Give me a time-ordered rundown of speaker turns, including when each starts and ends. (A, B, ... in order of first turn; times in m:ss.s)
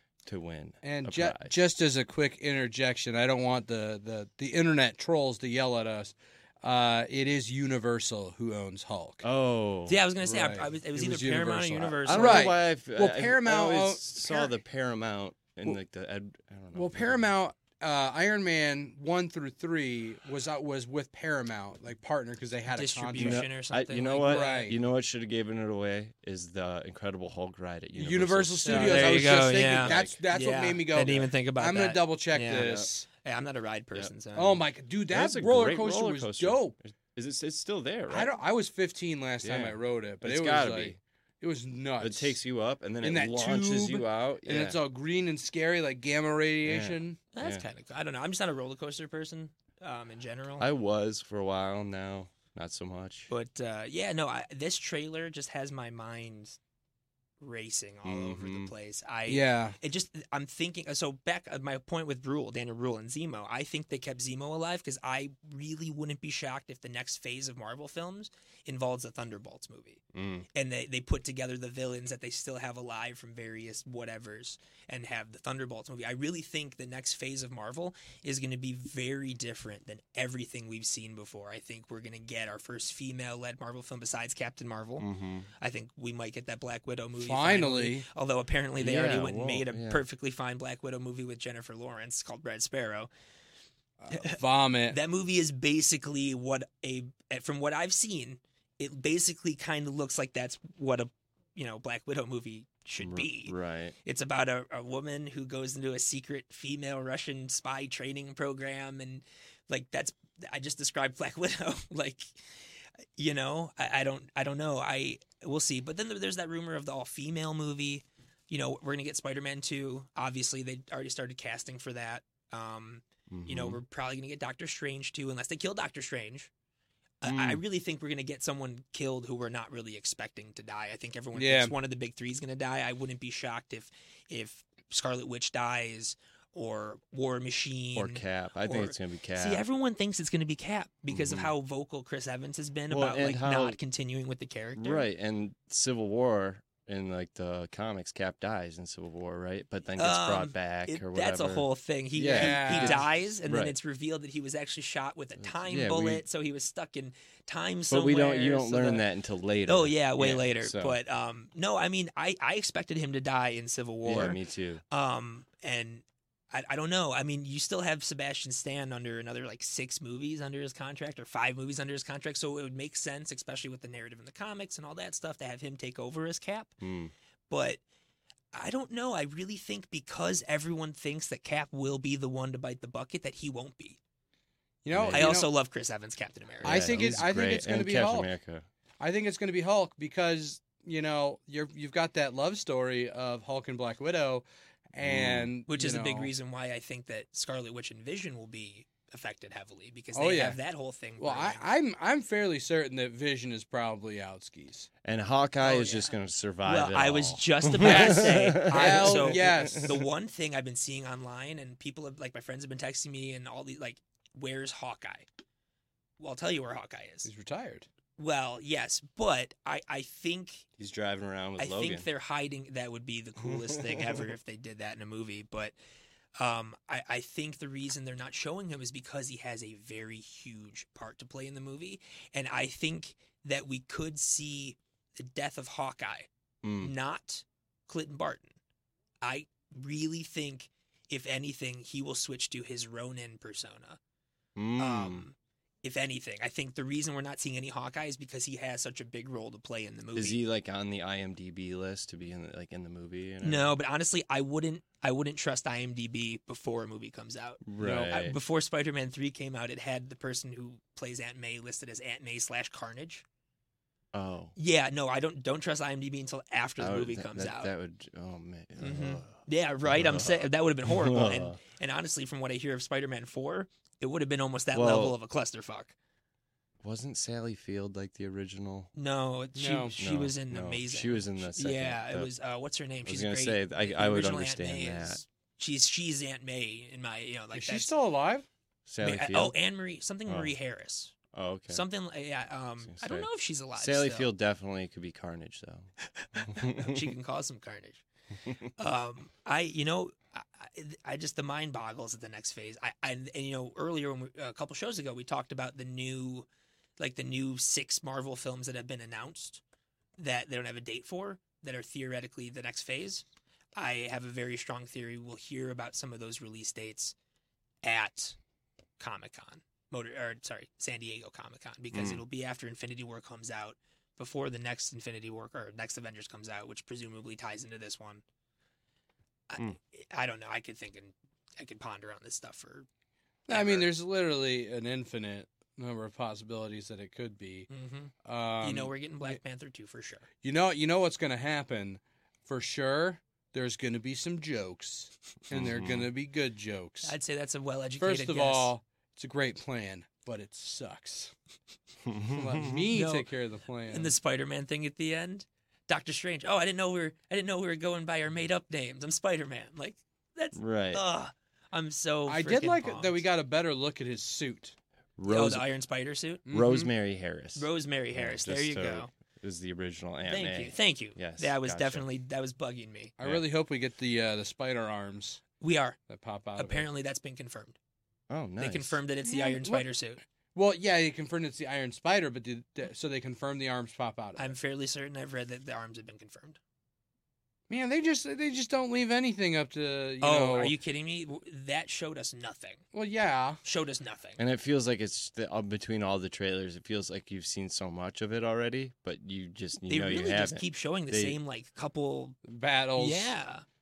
0:00.3-0:01.6 A
0:00.8-0:09.2 B
0:09.2-0:10.0 A
0:09.9-0:12.5 C
0:10.2-0:14.5 B
0:12.0-0:17.3 A
0:16.7-0:23.5 B
0:22.7-0:24.7 C
0:23.2-0:30.2 A
0:24.3-0:24.8 B
0:28.0-0:33.1 B
0:28.7-0:34.6 C
0:31.0-0:31.3 A
0:32.6-0:32.9 A
0:34.4-0:36.7 B
0:35.1-0:38.3 A
0:38.1-0:42.4 B
0:39.4-0:41.0 A
0:42.0-0:44.8 A
0:43.0-0:47.2 B
0:46.6-0:47.6 A
0:47.3-0:50.7 C
0:50.6-0:53.3 A
0:53.3-0:56.6 C
0:57.4-1:25.1 C
0:58.0-0:58.7 A
0:59.3-0:59.8 B
1:10.1-1:10.5 A
1:25.0-1:25.5 A
1:25.6-1:33.1 C
1:27.2-1:28.1 B
1:28.8-1:30.0 A
1:34.0-1:35.0 B
1:34.1-2:06.5 C
1:43.0-1:44.0 A
2:03.3-2:03.8 A
2:07.2-2:25.1 C
2:07.2-2:07.6 A
2:11.3-2:11.7 B
2:18.0-2:19.6 A
2:21.1-2:21.5 A
2:22.9-2:23.8 A
2:24.8-2:33.8 A
2:30.0-2:39.0 C
2:32.3-2:33.1 B
2:35.4-2:36.2 A
2:37.9-2:41.0 A
2:39.7-2:56.8 C
2:44.0-2:44.8 A
2:56.8-2:57.1 A
2:57.5-2:57.8 C
2:58.5-3:04.0 C
3:04.8-3:05.5 B
3:04.9-3:05.4 A
3:05.1-3:07.1 C
3:06.6-3:08.3 B
3:06.6-3:08.7 A
3:09.0-3:16.3 B
3:15.0-3:15.5 A
3:15.7-3:21.7 C
3:20.1-3:20.6 B
3:21.2-3:24.9 B
3:25.0-3:29.8 A
3:25.6-3:35.3 C
3:27.8-3:30.0 B
3:36.2-3:37.3 C
3:37.2-3:37.9 B
3:38.2-3:40.7 C
3:40.8-3:42.1 A
3:41.6-3:45.8 C
3:43.4-3:44.3 A
3:46.4-3:58.6 C
3:56.6-3:56.9 A
3:59.2-4:04.0 C
4:04.6-4:05.3 A
4:04.8-4:10.4 C
4:10.2-4:13.8 A
4:13.4-4:23.2 C
4:17.6-4:18.4 A
4:17.8-4:18.1 B
4:24.1-4:24.6 A
4:24.6-4:27.7 C
4:26.8-4:31.6 A
4:28.8-4:36.0 C
4:34.7-4:35.2 A
4:36.8-4:38.9 A
4:38.9-4:47.9 C
4:39.6-4:40.0 B
4:40.0-4:42.3 A
4:43.0-4:45.2 A
4:47.5-4:48.5 B
4:48.9-4:49.6 A
4:49.0-4:51.2 C
4:50.3-4:50.5 A
4:51.3-4:51.8 A
4:51.7-4:54.3 C
4:52.8-4:57.1 A
4:56.2-4:58.0 C
4:58.8-5:09.6 C
5:10.2-5:13.2 C
5:13.8-5:17.2 C
5:17.8-5:18.4 C
5:19.0-5:28.2 C
5:21.9-5:22.2 A
5:29.5-5:32.9 C
5:33.5-5:37.7 B
5:33.5-5:33.9 C
5:37.7-5:40.2 C
5:38.2-5:39.4 B
5:40.4-5:47.2 B
5:45.5-5:46.1 A
5:47.0-5:48.7 C
5:48.0-5:51.3 B
5:52.0-5:52.8 A
5:52.3-5:54.2 B
5:52.9-5:53.3 C
5:53.9-6:03.2 C
6:00.5-6:01.0 A
6:02.3-6:04.8 B
6:05.2-6:05.7 A
6:05.3-6:06.4 C
6:06.5-6:06.9 B
6:06.5-6:12.1 A
6:07.6-6:09.1 C
6:10.3-6:13.1 C
6:13.2-6:15.4 B
6:15.6-6:16.0 C
6:16.1-6:16.9 B
6:16.6-6:17.8 C
6:18.3-6:19.0 A
6:18.6-6:20.2 C
6:19.2-6:19.9 B
6:20.5-6:24.6 B
6:24.4-6:26.6 C
6:27.7-6:30.7 B
6:30.2-6:32.9 C
6:32.9-6:33.6 B
6:33.6-6:34.4 C
6:34.4-6:41.4 A
6:39.9-6:42.4 C
6:42.4-6:43.4 B
6:43.0-6:43.6 C